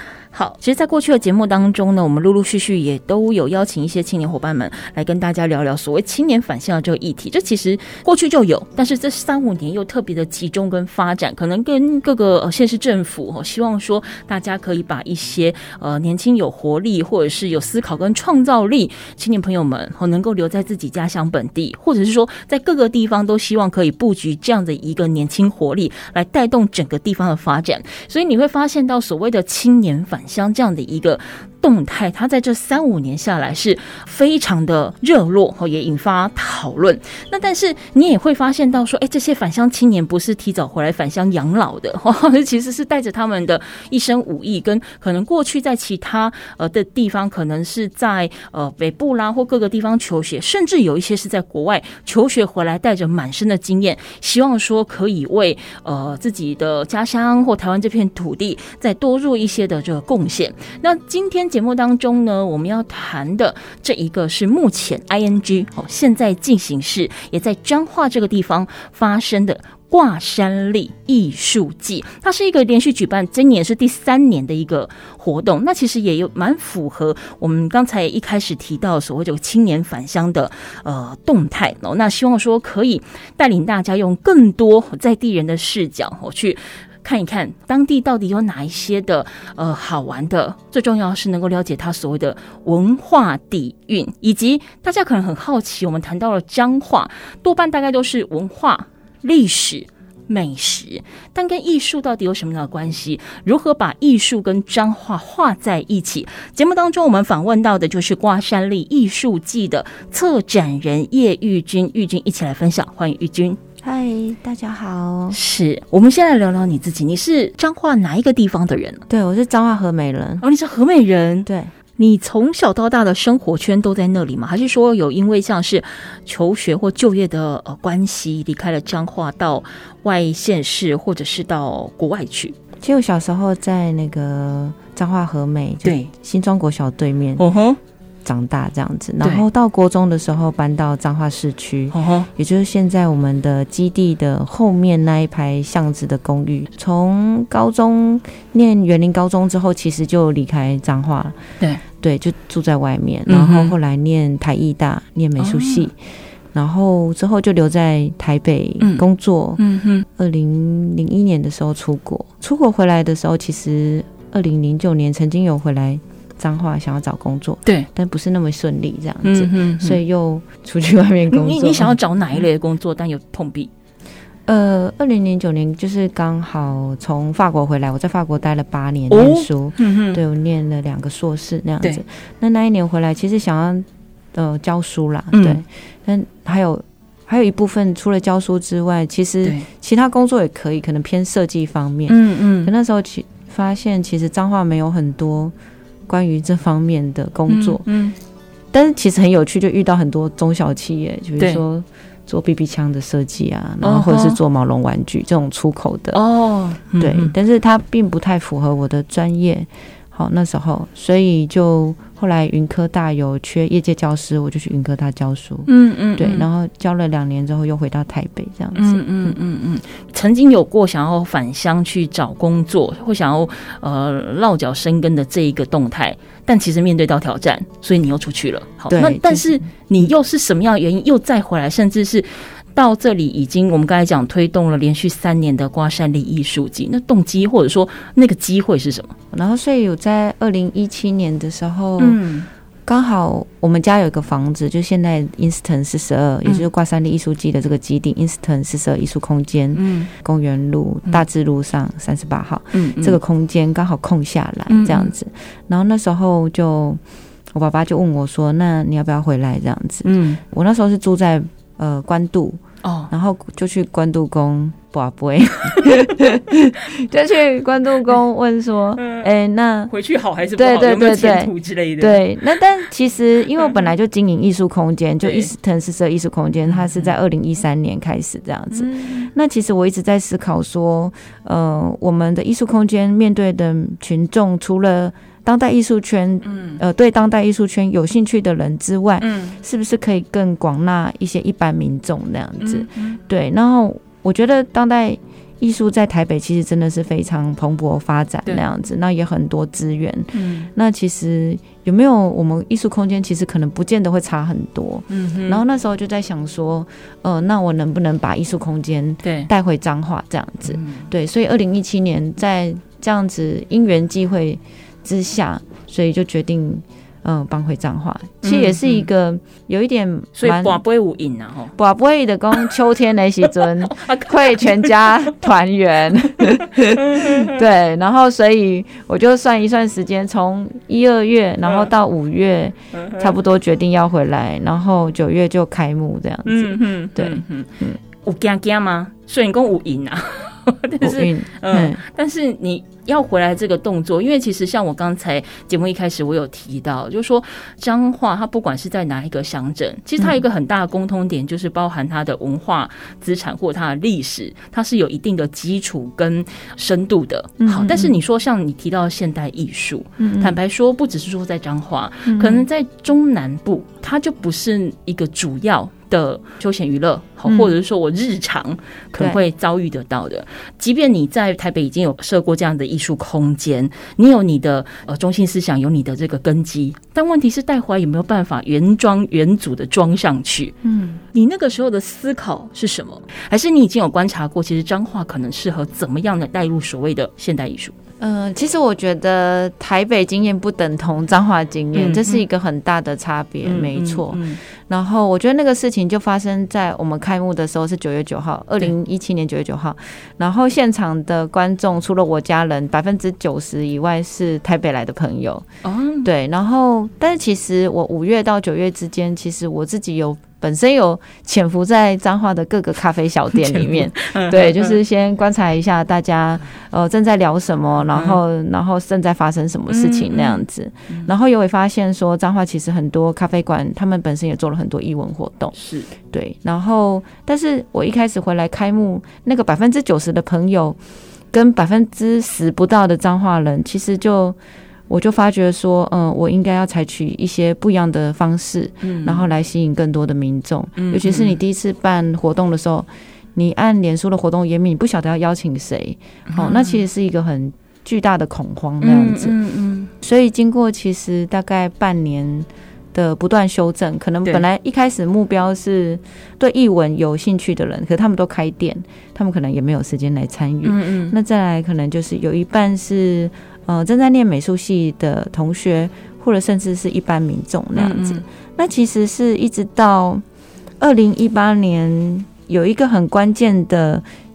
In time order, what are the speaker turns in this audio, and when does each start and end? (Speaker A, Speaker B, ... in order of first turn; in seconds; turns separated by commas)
Speaker A: 0.3-113.6, Speaker B: 113.8-115.4, Speaker A: 115.3-119.0, Speaker B: 119.1-120.4, Speaker A: 120.4-132.6, Speaker B: 121.5-121.7, Speaker B: 132.8-137.4, Speaker A: 135.8-136.1, Speaker A: 137.4-137.8, Speaker B: 138.2-151.4, Speaker A: 141.9-142.3, Speaker B: 151.9-156.0, Speaker A: 153.3-153.7, Speaker A: 155.4-155.8, Speaker B: 156.5-172.4, Speaker A: 159.6-160.1, Speaker A: 169.2-170.0, Speaker A: 171.3-173.7, Speaker B: 174.5-195.5, Speaker A: 179.1-180.2, Speaker A: 185.3-185.6, Speaker A: 192.1-192.7, Speaker B: 196.1-197.8, Speaker A: 197.5-198.2, Speaker B: 198.7-206.2, Speaker A: 203.8-204.4, Speaker A: 206.1-207.3, Speaker B: 207.0-219.3, Speaker A: 215.7-216.5, Speaker A: 218.8-239.2, Speaker B: 228.9-229.6, Speaker B: 239.3-242.2, Speaker A: 242.0-242.5, Speaker B: 242.9-257.0, Speaker A: 249.7-250.1, Speaker A: 252.7-253.2, Speaker A: 254.7-255.1, Speaker B: 257.5-262.6, Speaker A: 260.0-260.4, Speaker A: 262.8-263.1, Speaker B: 263.1-269.9, Speaker A: 268.9-269.3, Speaker A: 269.9-272.2, Speaker B: 270.6-320.8, Speaker A: 275.2-275.5, Speaker A: 276.7-277.1, Speaker A: 278.7-279.3, Speaker A: 286.4-286.8, Speaker A: 289.2-289.6, Speaker A: 292.6-293.2, Speaker A: 300.3-300.7, Speaker A: 305.1-305.6, Speaker A: 309.2-309.5, Speaker A: 310.7-311.1, Speaker A: 318.4-319.1, Speaker A: 320.4-321.8, Speaker B: 321.8-338.0, Speaker A: 323.8-325.3, Speaker A: 326.5-327.5, Speaker A: 332.9-333.3, Speaker A: 336.4-337.7, Speaker A: 338.2-380.8, Speaker B: 341.0-342.0, Speaker B: 357.6-358.1, Speaker B: 360.2-360.6, Speaker B: 362.3-362.6, Speaker B: 367.4-367.8, Speaker B: 380.8-381.2, Speaker A: 381.3-387.9, Speaker B: 388.2-405.7, Speaker A: 391.9-392.4, Speaker A: 393.6-394.6, Speaker A: 405.8-406.3, Speaker B: 406.2-431.0, Speaker A: 413.6-414.9, Speaker A: 418.1-418.4, Speaker A: 419.9-421.3, Speaker A: 425.8-426.1, Speaker B: 431.5-434.6, Speaker B: 435.1-449.6, Speaker A: 439.0-439.4, Speaker A: 440.9-441.6, Speaker A: 446.5-447.0, Speaker A: 449.0-450.1, Speaker B: 450.2-470.4, Speaker A: 460.8-461.3, Speaker A: 467.9-468.4, Speaker B: 471.0-474.2